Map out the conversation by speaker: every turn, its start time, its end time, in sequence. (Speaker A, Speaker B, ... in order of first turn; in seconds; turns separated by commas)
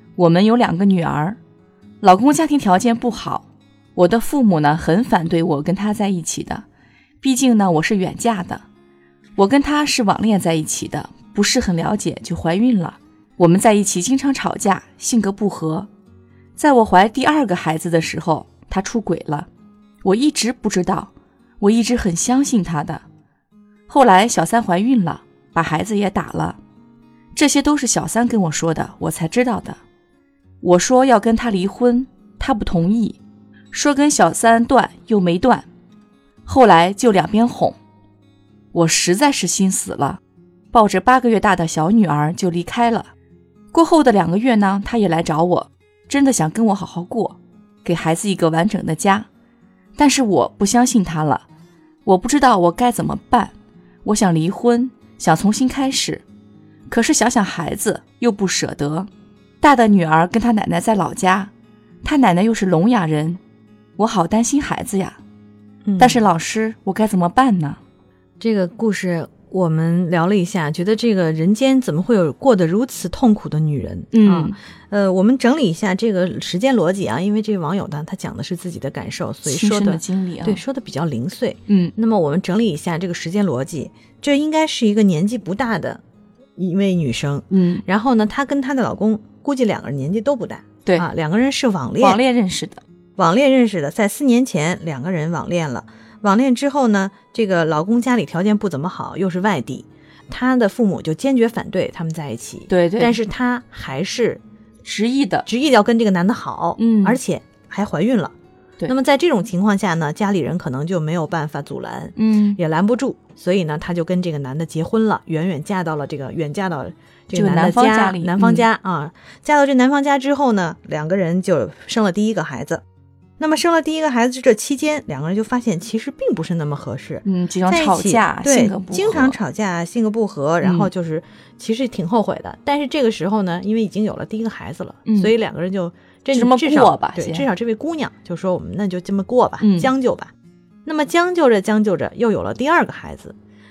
Speaker A: 0.2-1.4, Speaker A: 2.0-3.5, Speaker A: 4.0-6.7, Speaker A: 7.2-8.6, Speaker A: 9.4-15.9, Speaker A: 16.6-19.5, Speaker A: 20.0-23.0, Speaker A: 23.9-26.6, Speaker A: 27.4-29.8, Speaker A: 30.6-33.2, Speaker A: 33.7-35.7, Speaker A: 36.5-37.8, Speaker A: 38.7-40.2, Speaker A: 40.7-43.1, Speaker A: 43.7-49.3, Speaker A: 50.0-51.5, Speaker A: 52.1-53.5, Speaker A: 54.0-56.2, Speaker A: 56.9-59.1, Speaker A: 59.6-61.5, Speaker A: 62.0-63.4, Speaker A: 64.0-65.2, Speaker B: 65.8-66.3, Speaker A: 66.0-67.8, Speaker B: 68.4-86.0, Speaker A: 74.1-74.5, Speaker A: 79.5-80.6, Speaker A: 81.7-81.9, Speaker B: 86.6-92.2, Speaker A: 87.5-87.8, Speaker A: 92.0-92.8, Speaker B: 93.2-104.4, Speaker A: 102.7-103.2, Speaker A: 104.8-105.5, Speaker B: 105.5-108.3, Speaker A: 106.8-107.2, Speaker B: 108.9-122.8, Speaker A: 112.2-112.6, Speaker A: 117.3-118.7, Speaker B: 123.4-140.3, Speaker A: 127.2-129.4, Speaker A: 130.6-130.9, Speaker A: 135.1-135.3, Speaker A: 136.3-137.5, Speaker A: 139.6-139.9, Speaker B: 140.9-143.3